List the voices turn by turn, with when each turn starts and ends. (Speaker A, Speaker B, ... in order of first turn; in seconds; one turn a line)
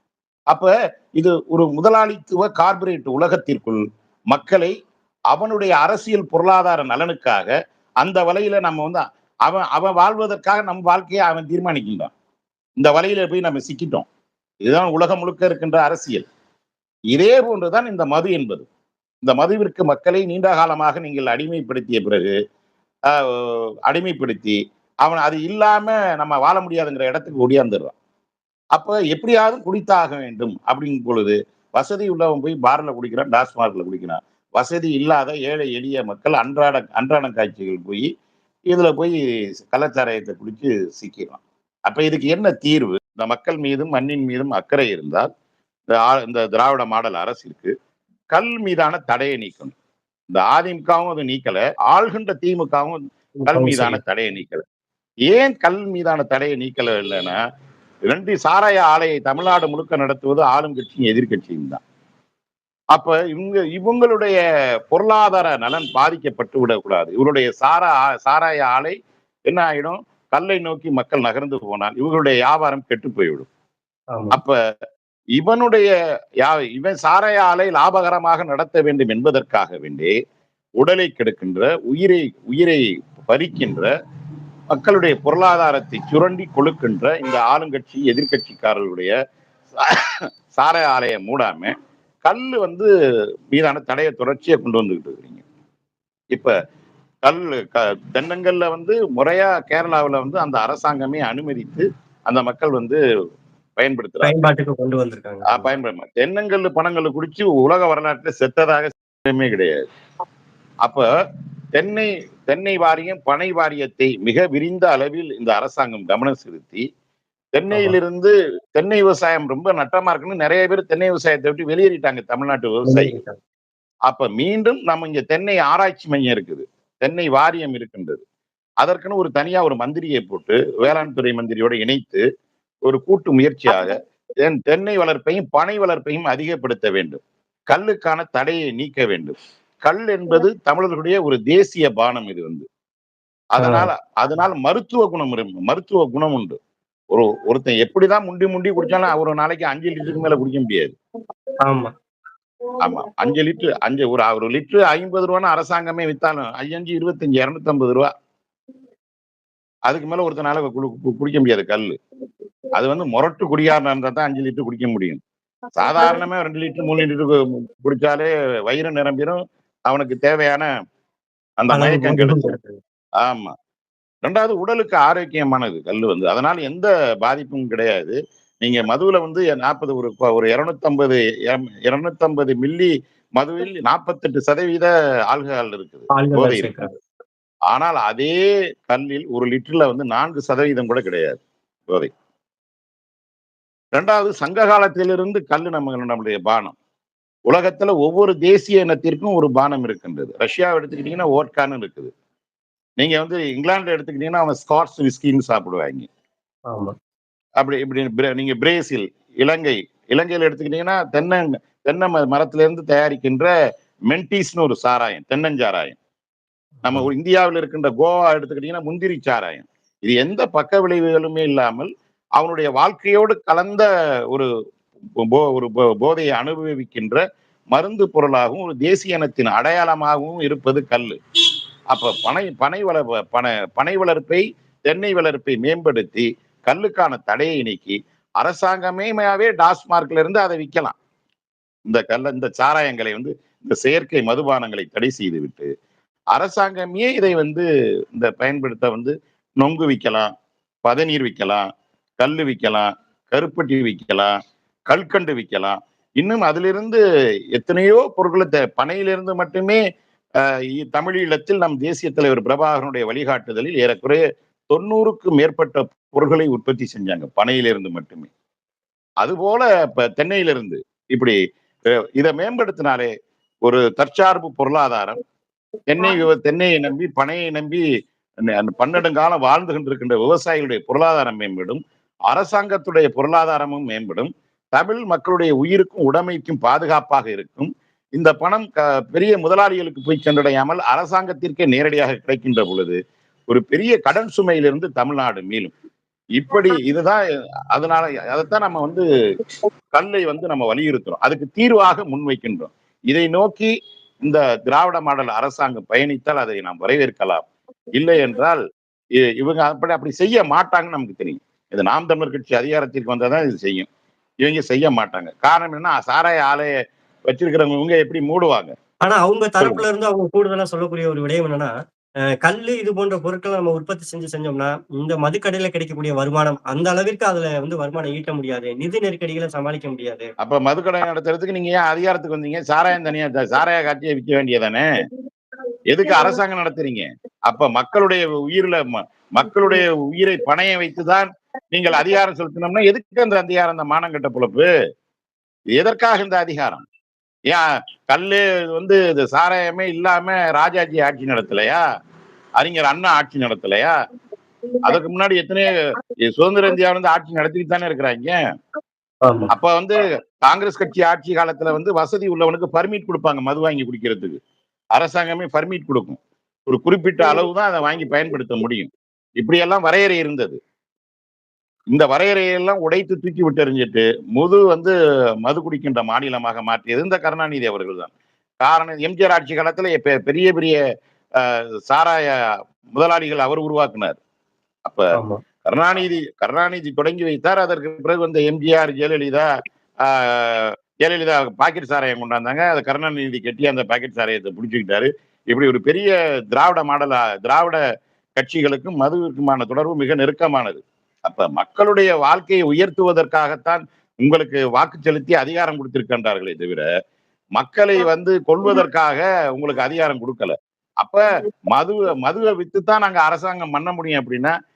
Speaker A: 0.5-4.7
Speaker A: 5.3-7.5
Speaker A: 8.0-12.1
Speaker A: 12.8-14.1
Speaker A: 14.6-16.3
Speaker A: 17.1-18.7
Speaker A: 19.2-22.3
Speaker A: 23.1-27.9
Speaker A: 28.8-38.1
Speaker A: 38.7-45.3
Speaker A: 45.9-47.7
Speaker A: 48.3-49.7
Speaker A: 50.3-54.6
Speaker B: 53.4-54.0
Speaker A: 55.2-57.4
Speaker A: 58.1-61.8
Speaker A: 62.9-64.4
Speaker A: 64.9-69.0
Speaker A: 69.5-73.5
Speaker B: 74.1-74.4
Speaker A: 74.3-74.6
Speaker A: 75.4-75.9
Speaker A: 76.4-80.1
Speaker A: 80.8-83.9
Speaker A: 84.7-89.1
Speaker A: 89.8-91.7
Speaker A: 92.2-92.9
Speaker A: 93.5-95.4
Speaker A: 97.2-103.0
Speaker A: 103.8-104.3
Speaker B: 104.2-105.7
Speaker A: 105.5-109.8
Speaker A: 111.7-116.8
Speaker A: 117.5-123.1
Speaker B: 117.7-118.0
Speaker B: 122.8-123.4
Speaker A: 124.1-128.2
Speaker A: 128.8-132.2
Speaker A: 132.8-142.7
Speaker A: 143.6-146.6
Speaker B: 143.6-143.9
Speaker A: 147.1-150.9
Speaker B: 151.7-151.9
Speaker A: 152.8-158.1
Speaker A: 159.9-161.9
Speaker A: 162.7-165.2
Speaker A: 165.8-170.7
Speaker A: 171.6-172.5
Speaker B: 171.7-172.8
Speaker A: 173.2-173.5
Speaker A: 174.2-186.7
Speaker B: 186.1-187.0
Speaker A: 187.7-192.1
Speaker A: 193.9-196.8
Speaker A: 197.5-202.1
Speaker A: 203.0-206.1
Speaker A: 207.6-213.5
Speaker A: 214.1-216.0
Speaker B: 216.8-217.1
Speaker A: 216.8-224.5
Speaker A: 225.2-227.2
Speaker A: 227.7-231.2
Speaker A: 231.9-241.0
Speaker A: 241.8-245.7
Speaker A: 246.3-250.3
Speaker A: 250.8-251.7
Speaker A: 252.2-254.3
Speaker A: 254.9-257.0
Speaker A: 257.5-259.8
Speaker A: 260.4-268.3
Speaker A: 269.2-271.4
Speaker A: 272.1-273.1
Speaker A: 273.6-275.2
Speaker A: 275.9-277.8
Speaker A: 278.4-295.7
Speaker A: 296.4-299.1
Speaker A: 299.9-303.7
Speaker A: 304.2-308.6
Speaker A: 309.2-313.9
Speaker A: 314.4-316.7
Speaker A: 317.3-318.7
Speaker B: 319.0-321.7
Speaker B: 322.4-330.3
Speaker A: 330.4-334.9
Speaker A: 335.9-344.7
Speaker A: 345.7-346.8
Speaker A: 347.5-351.8
Speaker A: 352.6-353.9
Speaker A: 354.8-358.3
Speaker B: 359.2-359.5
Speaker A: 359.5-364.4
Speaker A: 364.9-370.6
Speaker A: 371.9-374.9
Speaker A: 375.4-380.8
Speaker A: 381.4-384.2
Speaker A: 384.8-385.1
Speaker B: 385.1-385.4
Speaker A: 385.6-389.4
Speaker A: 390.0-397.8
Speaker A: 398.4-406.9
Speaker A: 407.6-414.5